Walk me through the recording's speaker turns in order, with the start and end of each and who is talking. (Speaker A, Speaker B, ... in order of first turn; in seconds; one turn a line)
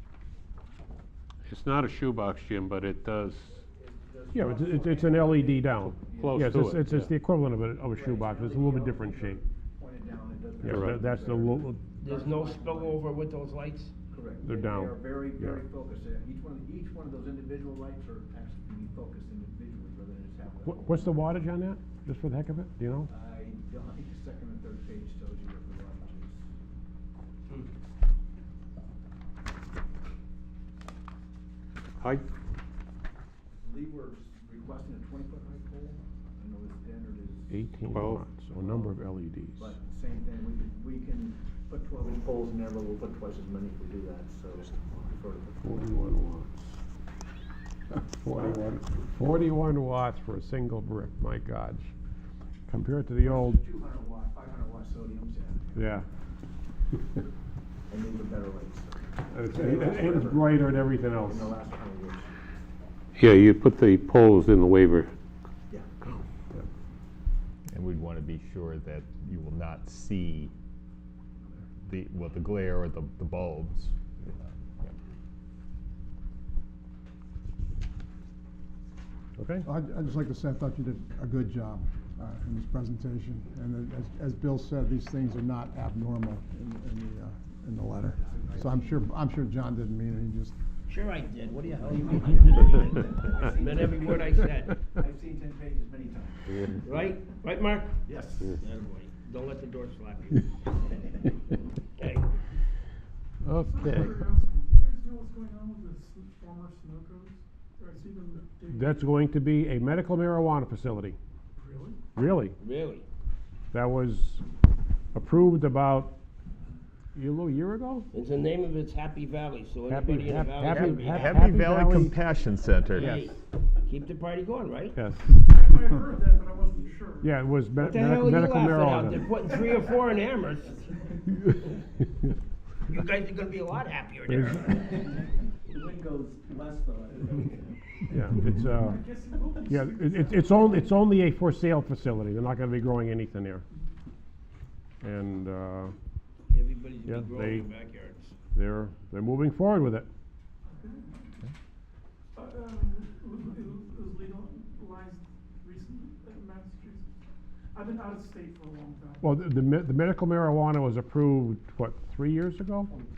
Speaker A: 1.4-3.6
Speaker B: 3.5-6.5
Speaker C: 4.3-9.4
Speaker A: 6.1-7.1
Speaker B: 7.9-13.1
Speaker C: 10.6-11.8
Speaker A: 10.6-11.0
Speaker D: 12.0-13.9
Speaker B: 14.1-21.2
Speaker C: 14.4-15.6
Speaker C: 20.6-23.1
Speaker B: 23.1-26.4
Speaker A: 32.0-32.2
Speaker B: 33.6-37.5
Speaker C: 37.5-39.7
Speaker A: 37.9-38.3
Speaker B: 38.6-38.9
Speaker B: 39.5-45.6
Speaker C: 45.6-46.8
Speaker C: 47.9-51.9
Speaker C: 52.7-53.6
Speaker B: 53.2-56.0
Speaker C: 55.7-56.0
Speaker B: 57.9-62.3
Speaker C: 59.3-61.5
Speaker A: 63.2-65.1
Speaker E: 67.7-70.5
Speaker E: 71.8-74.9
Speaker C: 79.4-79.7
Speaker F: 79.6-90.5
Speaker B: 88.2-88.9
Speaker D: 90.9-94.7
Speaker B: 91.5-96.5
Speaker D: 96.8-100.6
Speaker B: 98.0-98.5
Speaker D: 102.0-102.3
Speaker A: 103.4-104.1
Speaker G: 103.6-109.1
Speaker C: 108.7-111.2
Speaker G: 111.6-112.0
Speaker C: 112.1-112.5
Speaker D: 112.6-113.0
Speaker C: 113.7-114.4
Speaker C: 115.1-116.2
Speaker C: 117.1-118.1
Speaker D: 118.1-121.5
Speaker C: 119.9-122.2
Speaker E: 120.6-123.2
Speaker D: 122.9-125.0
Speaker C: 123.0-123.3
Speaker C: 124.9-125.5
Speaker G: 125.5-127.4
Speaker C: 127.2-129.2
Speaker D: 127.8-130.8
Speaker D: 132.9-134.8
Speaker C: 134.3-134.8
Speaker B: 136.5-137.0
Speaker C: 138.1-139.1
Speaker G: 138.8-140.9
Speaker C: 139.7-143.6
Speaker C: 145.0-145.9
Speaker D: 146.5-148.3
Speaker C: 147.1-147.7
Speaker C: 148.5-150.1
Speaker G: 150.8-151.2
Speaker G: 152.3-157.1
Speaker G: 157.7-159.4
Speaker C: 159.2-162.9